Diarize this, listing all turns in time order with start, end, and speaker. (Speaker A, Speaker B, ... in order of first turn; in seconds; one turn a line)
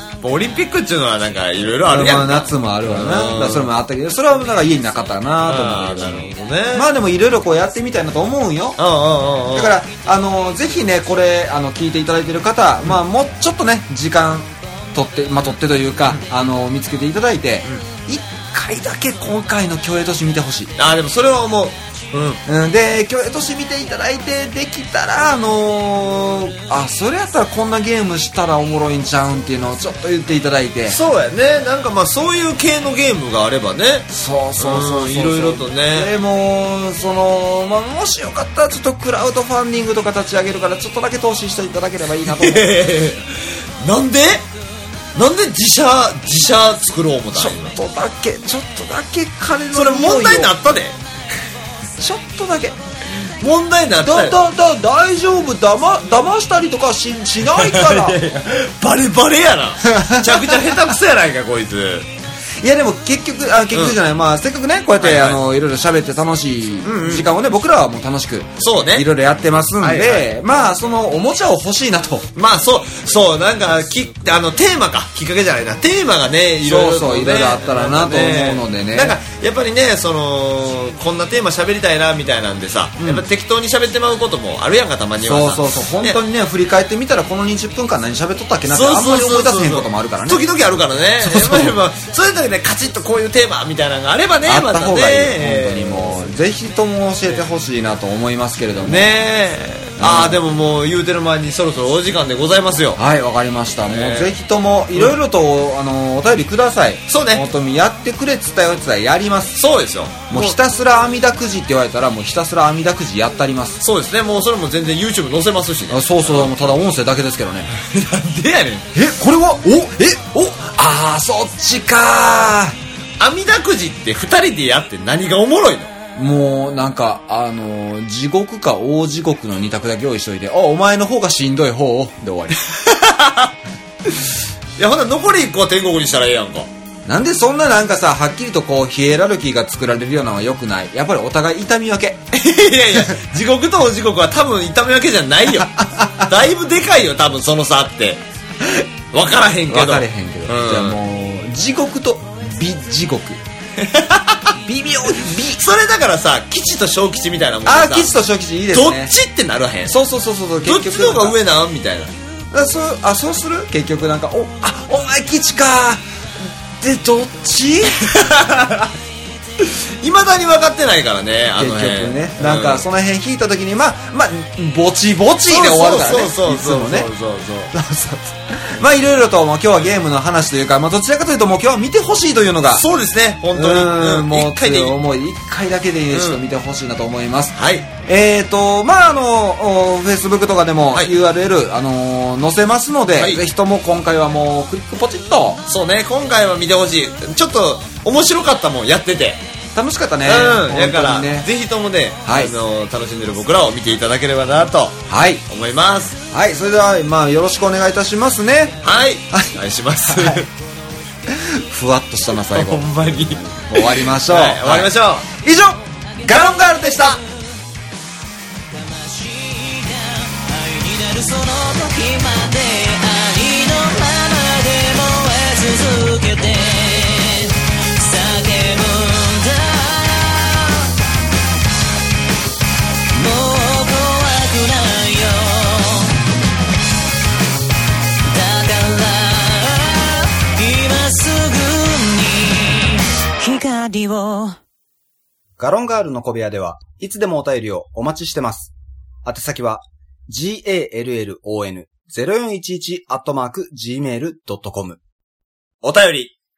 Speaker A: 0.2-3.7
Speaker B: 1.8-8.8
Speaker A: 5.4-6.9
Speaker A: 8.8-9.8
Speaker B: 9.5-20.7
Speaker A: 20.8-22.4
Speaker B: 22.4-31.0
Speaker A: 30.9-34.1
Speaker B: 34.1-42.7
Speaker A: 34.6-36.1
Speaker A: 42.3-44.4
Speaker A: 45.1-47.7
Speaker B: 47.3-50.5
Speaker A: 49.7-51.0
Speaker B: 52.0-52.8
Speaker A: 53.4-54.4
Speaker B: 54.0-58.2
Speaker A: 57.4-62.1
Speaker B: 59.8-60.8
Speaker B: 62.6-72.3
Speaker A: 63.7-64.0
Speaker A: 65.0-65.4
Speaker A: 66.8-67.3
Speaker A: 68.6-69.1
Speaker A: 69.8-70.3
Speaker A: 72.3-86.2
Speaker B: 76.6-79.2
Speaker B: 83.0-83.2
Speaker B: 85.2-90.4
Speaker A: 88.7-96.3
Speaker B: 91.2-91.8
Speaker B: 94.4-99.1
Speaker A: 98.8-103.0
Speaker B: 100.0-100.4
Speaker B: 103.0-109.6
Speaker A: 103.8-104.4
Speaker A: 107.1-107.4
Speaker A: 109.5-110.6
Speaker B: 110.3-113.8
Speaker A: 113.8-116.6
Speaker B: 115.9-117.7
Speaker A: 117.7-118.8
Speaker B: 118.9-122.7
Speaker A: 123.2-125.9
Speaker B: 126.2-132.6
Speaker A: 132.7-133.5
Speaker A: 134.8-136.7
Speaker B: 137.1-142.2
Speaker A: 142.3-148.2
Speaker B: 145.6-146.2
Speaker A: 149.1-151.0
Speaker B: 149.7-153.4
Speaker A: 153.8-154.5
Speaker B: 154.6-155.6
Speaker A: 155.2-158.1
Speaker B: 157.6-159.1
Speaker A: 158.7-160.0
Speaker B: 159.9-161.4
Speaker A: 160.6-162.1
Speaker B: 162.5-166.0
Speaker B: 166.8-168.0
Speaker A: 168.0-168.9
Speaker A: 169.6-172.8
Speaker B: 171.6-177.1
Speaker A: 175.5-177.7
Speaker B: 177.7-182.8
Speaker A: 182.7-185.0
Speaker B: 183.5-187.5
Speaker A: 186.1-186.4
Speaker A: 187.5-187.9
Speaker B: 188.1-195.6
Speaker A: 193.1-193.4
Speaker A: 195.7-199.4
Speaker B: 199.7-201.5
Speaker A: 200.2-206.2
Speaker B: 202.2-202.5
Speaker B: 205.1-205.4
Speaker B: 206.3-208.8
Speaker A: 208.8-210.5
Speaker B: 209.3-210.4
Speaker B: 211.3-217.2
Speaker A: 212.5-215.3
Speaker C: 218.9-230.8
Speaker C: 233.1-236.1
Speaker C: 238.3-244.6
Speaker B: 245.6-248.7
Speaker B: 249.2-255.0
Speaker A: 255.8-256.4